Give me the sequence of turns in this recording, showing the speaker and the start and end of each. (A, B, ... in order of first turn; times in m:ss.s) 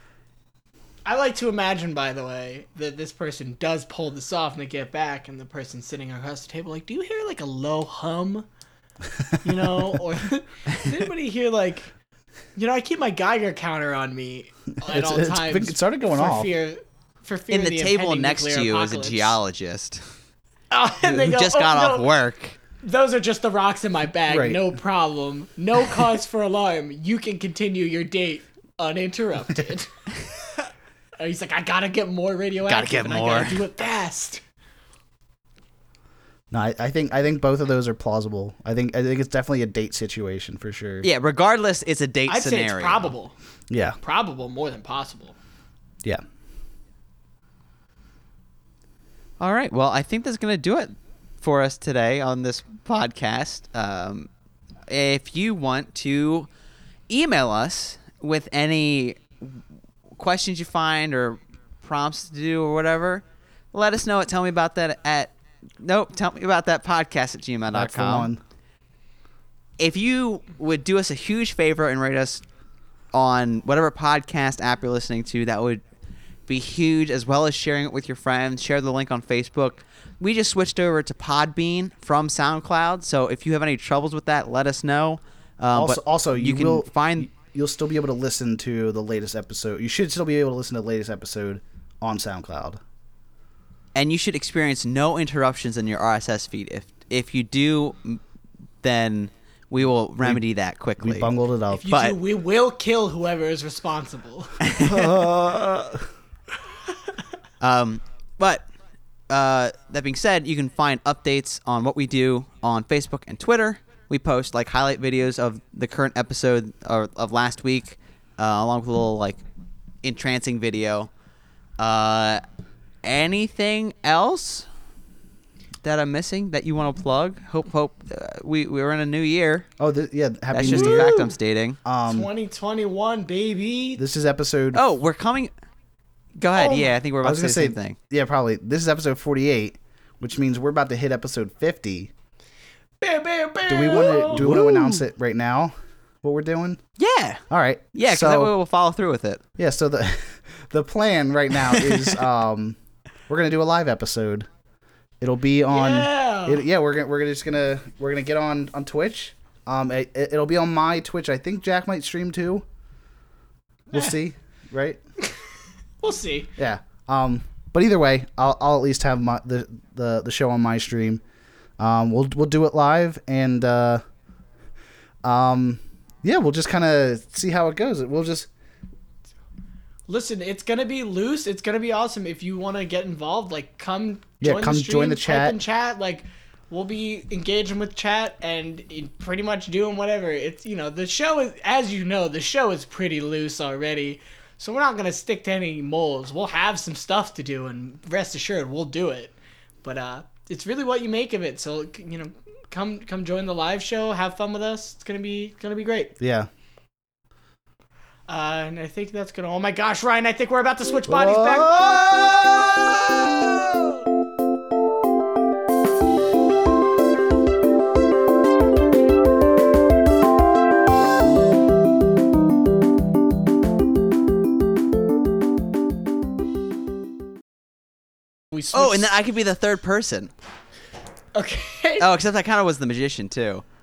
0:01.1-0:08.5 A
0:09.4-0:11.9 A
0:12.6-0:19.4 A
0:14.8-0:16.5 B
0:17.5-0:20.0 C
0:20.7-0:22.1 A
0:21.1-0:22.6 C
0:22.8-0:30.6 A
0:24.3-0:24.8 B
0:31.2-0:34.4 A
0:32.7-0:33.6 C
0:36.5-0:41.1 B
0:41.0-0:43.1 C
0:42.3-0:43.4 A
0:43.7-0:44.0 B
0:44.0-0:45.4 A
0:49.4-0:54.3 C
0:54.9-0:56.5 C
0:57.1-0:59.6 C
1:00.2-1:08.3 C
1:07.7-1:08.4 B
1:09.8-1:12.4 C
1:13.1-1:15.8 C
1:16.5-1:27.3 C
1:25.7-1:32.8 B
1:34.0-1:38.2 C
1:38.8-1:41.3 C
1:41.0-1:41.9 B
1:41.7-1:45.2 A
1:41.9-1:42.2 C
1:44.8-1:46.1 B
1:47.6-1:48.7 C
1:49.3-1:59.4 C
2:00.0-2:01.1 C
2:01.8-2:02.4 C
2:03.0-2:04.7 C
2:05.8-2:09.7 C
2:09.8-2:11.2 B
2:10.5-2:11.8 C
2:10.6-2:11.3 A
2:11.8-2:12.3 B
2:12.0-2:14.0 A
2:14.0-2:14.8 B
2:14.7-2:15.5 C
2:16.4-2:18.0 C
2:16.6-2:17.0 A
2:17.2-2:22.1 B
2:23.0-2:24.5 A
2:23.7-2:26.8 B
2:24.0-2:25.0 C
2:27.0-2:27.4 C
2:27.5-2:28.5 B
2:28.0-2:29.4 C
2:29.6-2:32.8 B
2:33.3-2:34.5 B
2:35.2-2:42.6 B
2:35.7-2:36.6 A
2:43.9-2:45.0 B
2:46.0-2:46.5 A
2:46.6-2:51.2 B
2:51.8-2:54.0 B
2:55.2-2:58.5 B
3:00.1-3:26.1 A
3:04.4-3:05.6 B
3:26.2-3:26.5 B
3:28.3-3:32.0 A
3:31.1-3:33.4 B
3:48.5-3:49.0 A
3:48.7-3:50.3 C
3:51.4-3:52.1 A
3:52.0-3:53.6 C